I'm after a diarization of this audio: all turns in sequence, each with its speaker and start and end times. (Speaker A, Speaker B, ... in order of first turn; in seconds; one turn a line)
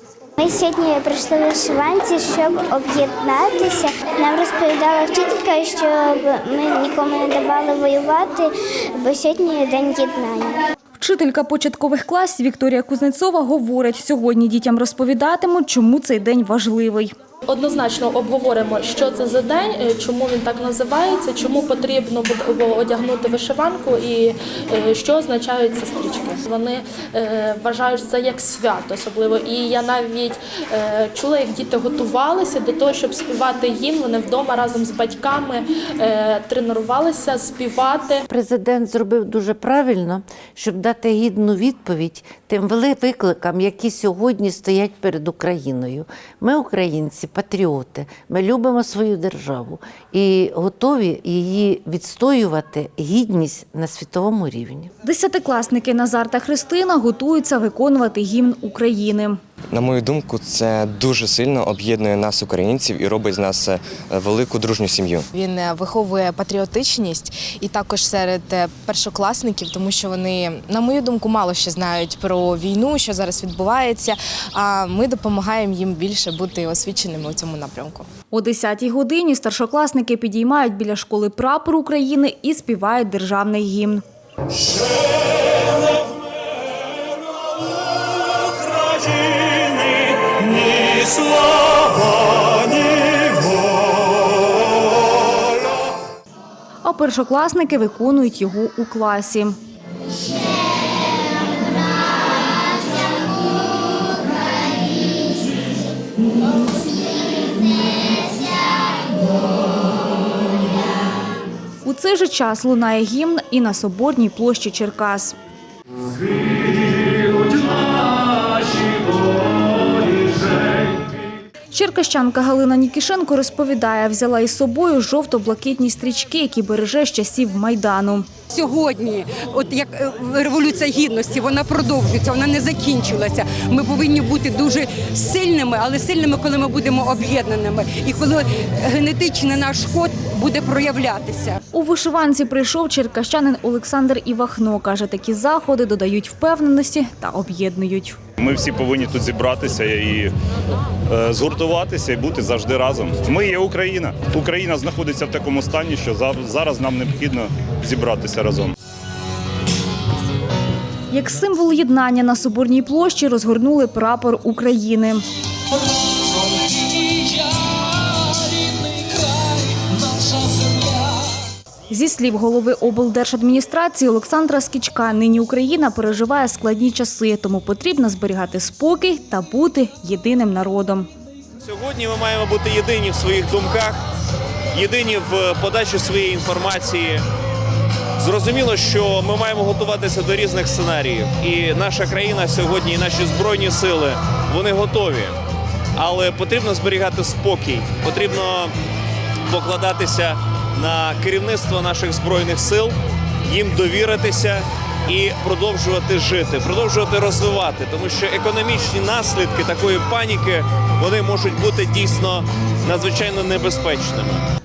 Speaker A: 0.4-10.6
Speaker B: 11.0-17.1
Speaker C: 17.5-38.2
Speaker D: 38.3-54.9
Speaker B: 55.0-59.4
Speaker E: 59.7-65.2
Speaker F: 65.2-78.1
Speaker B: 78.3-84.0
Speaker G: 90.3-90.8
Speaker B: 96.8-99.6
Speaker B: 111.8-115.3
Speaker B: 121.7-128.3
Speaker H: 128.5-141.6
Speaker B: 141.7-148.2
Speaker G: 148.4-150.3
Speaker G: 151.1-158.7
Speaker B: 161.1-165.2
Speaker B: 171.9-181.1
Speaker I: 181.6-184.0
Speaker I: 184.7-187.2
Speaker I: 188.2-195.3
Speaker I: 195.9-198.7
Speaker I: 199.5-214.4